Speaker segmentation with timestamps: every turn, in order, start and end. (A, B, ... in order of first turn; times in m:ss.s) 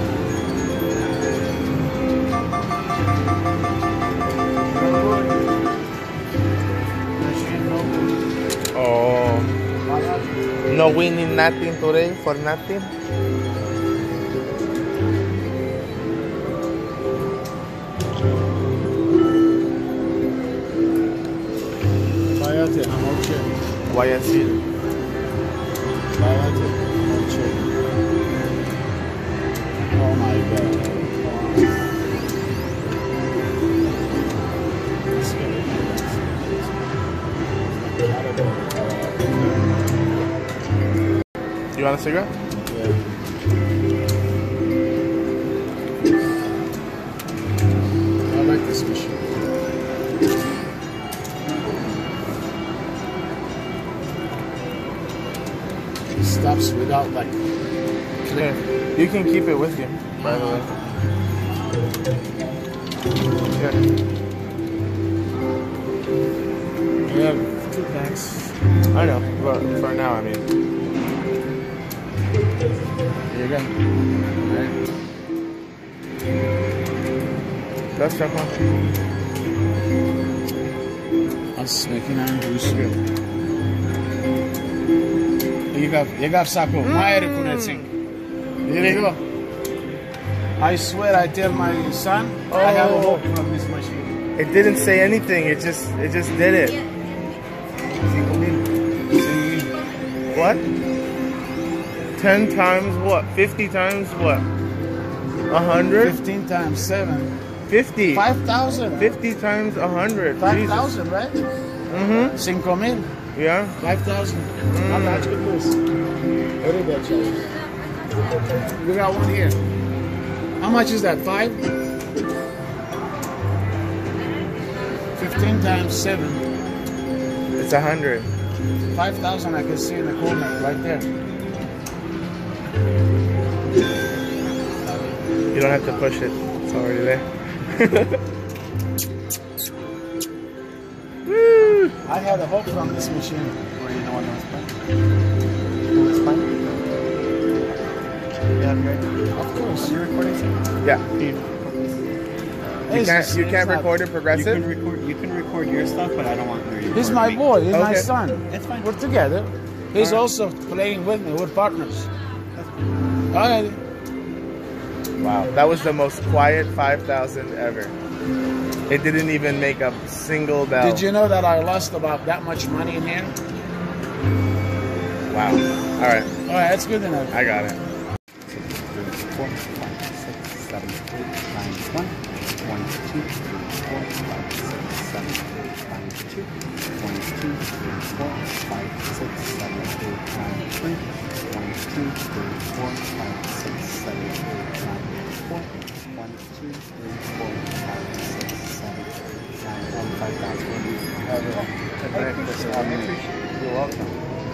0:04.7-0:05.4 A
0:07.2-0:08.2 A
0:08.7-0:09.5 B
0:09.8-0:10.4 A
0:10.7-0:12.9 B
0:22.3-0:23.5 A
0:23.9-0:24.6 B
0:26.1-0:27.7 A
0:29.9-0:31.7 A
0:35.1-0:36.9 A
0:37.8-0:39.7 A
0:41.7-0:42.3 B
0:42.7-0:43.0 A
0:48.3-0:49.3 A
0:56.2-0:57.4 A
0:58.3-1:00.7 B
1:00.2-1:00.7 A
1:07.0-1:08.5 A
1:08.9-1:10.4 B
1:13.3-1:13.7 A
1:14.4-1:14.7 A
1:18.0-1:18.7 B
1:21.6-1:23.0 A
1:22.6-1:22.9 B
1:25.7-1:27.9 A
1:26.8-1:27.9 B
1:28.6-1:29.2 A
1:28.8-1:29.1 B
1:30.6-1:34.2 A
1:32.5-1:33.2 B
1:34.4-1:36.8 B
1:37.9-1:38.6 B
1:39.1-1:39.7 A
1:40.3-1:40.7 B
1:42.2-1:44.4 B
1:45.5-1:46.2 B
1:46.0-1:47.3 A
1:47.7-1:50.9 B
1:48.1-1:49.2 A
1:50.4-1:51.4 A
1:51.9-1:52.4 B
1:52.3-1:53.1 A
1:53.3-1:53.8 B
1:53.8-1:55.8 A
1:54.7-1:55.3 B
1:56.6-1:57.5 A
1:58.8-1:59.6 A
2:00.6-2:01.6 A
2:05.2-2:06.4 A
2:07.6-2:08.3 B
2:08.9-2:11.1 A
2:15.5-2:18.2 B
2:21.3-2:21.9 B
2:22.0-2:23.6 A
2:23.7-2:24.7 C
2:25.9-2:26.8 C
2:28.5-2:29.2 C
2:29.3-2:30.0 A
2:29.8-2:32.2 C
2:32.9-2:33.9 A
2:32.9-2:34.7 B
2:34.3-2:37.4 C
2:36.9-2:42.1 A
2:37.7-2:38.1 B
2:38.5-2:38.9 C
2:40.0-2:40.2 B
2:42.5-2:42.9 C
2:43.3-2:43.8 A
2:45.2-2:47.9 B
2:48.9-2:51.0 B
2:50.8-2:53.4 A
2:55.3-2:56.3 B
2:56.4-2:57.4 A
2:57.3-2:57.8 B
2:58.5-3:23.2 C
3:21.2-3:24.2 A
3:22.0-3:23.0 B